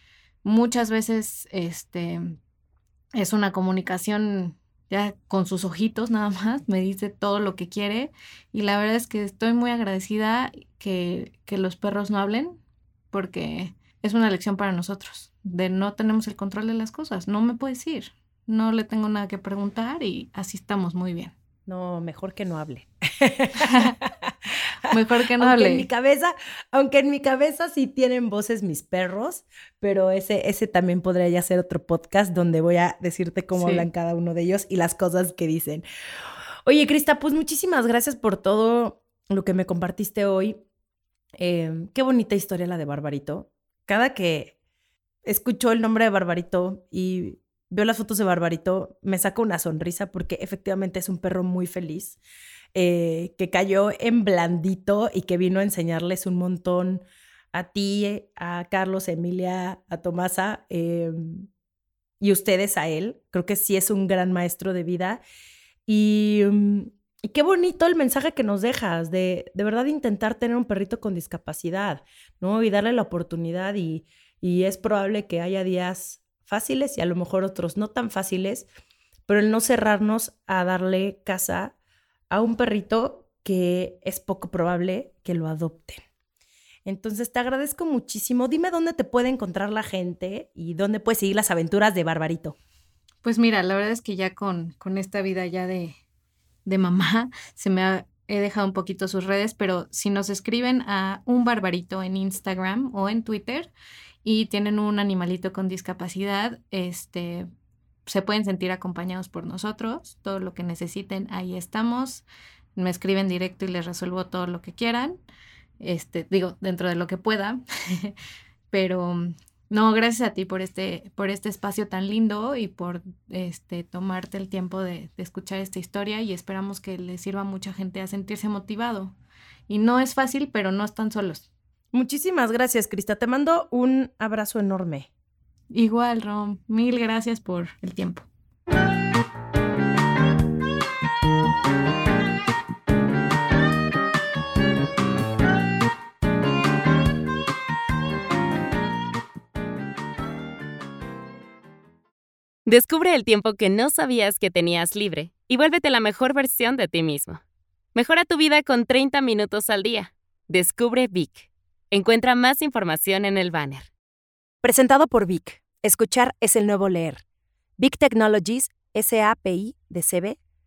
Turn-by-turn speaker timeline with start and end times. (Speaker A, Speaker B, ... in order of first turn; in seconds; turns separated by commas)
Speaker A: 0.4-2.4, Speaker A: 3.1-12.6, Speaker A: 13.1-21.3, Speaker B: 21.7-24.3, Speaker A: 23.6-23.9, Speaker A: 24.9-25.9, Speaker B: 24.9-35.8, Speaker A: 33.5-33.9, Speaker B: 36.6-40.6, Speaker B: 41.4-44.5, Speaker B: 45.2-52.2, Speaker B: 52.7-61.5, Speaker B: 62.2-65.2, Speaker B: 65.9-78.7, Speaker B: 79.3-81.8, Speaker B: 82.3-86.0, Speaker B: 86.8-92.6, Speaker A: 93.2-96.0, Speaker A: 96.7-103.7, Speaker A: 104.2-107.5, Speaker A: 108.1-112.2, Speaker A: 112.8-115.2, Speaker A: 115.8-118.1, Speaker A: 118.7-129.2, Speaker A: 129.7-131.5, Speaker B: 131.9-135.1, Speaker A: 135.7-138.3, Speaker C: 152.7-157.4, Speaker C: 157.9-163.9, Speaker B: 164.6-167.2, Speaker B: 167.8-170.4